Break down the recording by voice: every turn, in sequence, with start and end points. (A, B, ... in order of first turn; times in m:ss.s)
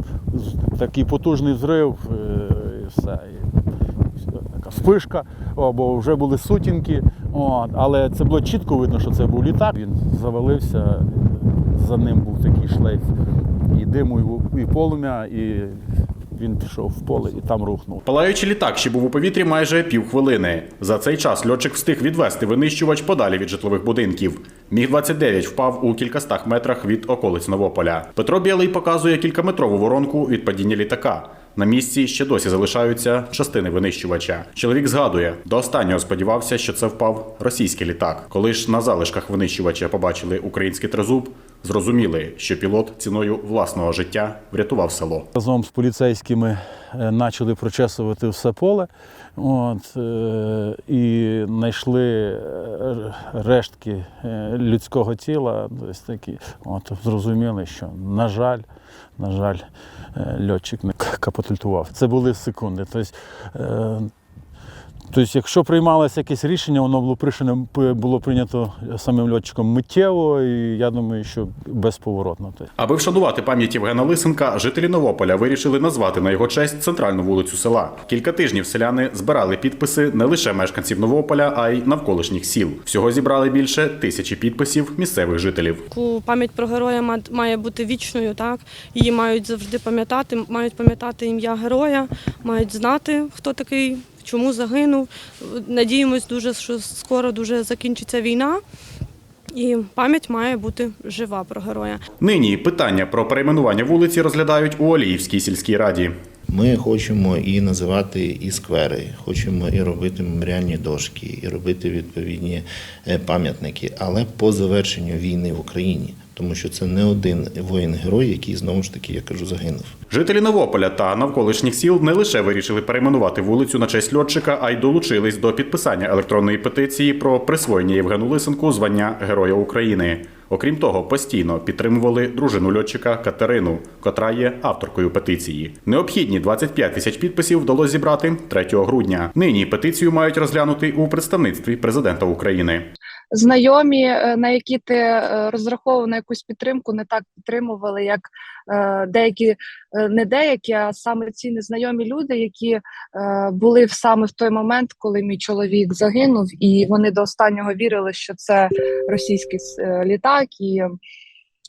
0:00.3-0:03.5 A
0:04.3-0:13.1 A
0:13.7-0:18.0 A
0:18.1-0:45.3 B
0:45.3-0:58.7 A
0:59.2-1:04.1 A
1:05.1-1:12.7 A
1:12.8-1:25.9 B
1:25.9-1:38.6 C
1:39.5-1:42.0 C
1:42.2-1:46.1 B
1:46.5-2:00.0 D
2:00.1-2:22.9 B
2:23.3-2:40.9 E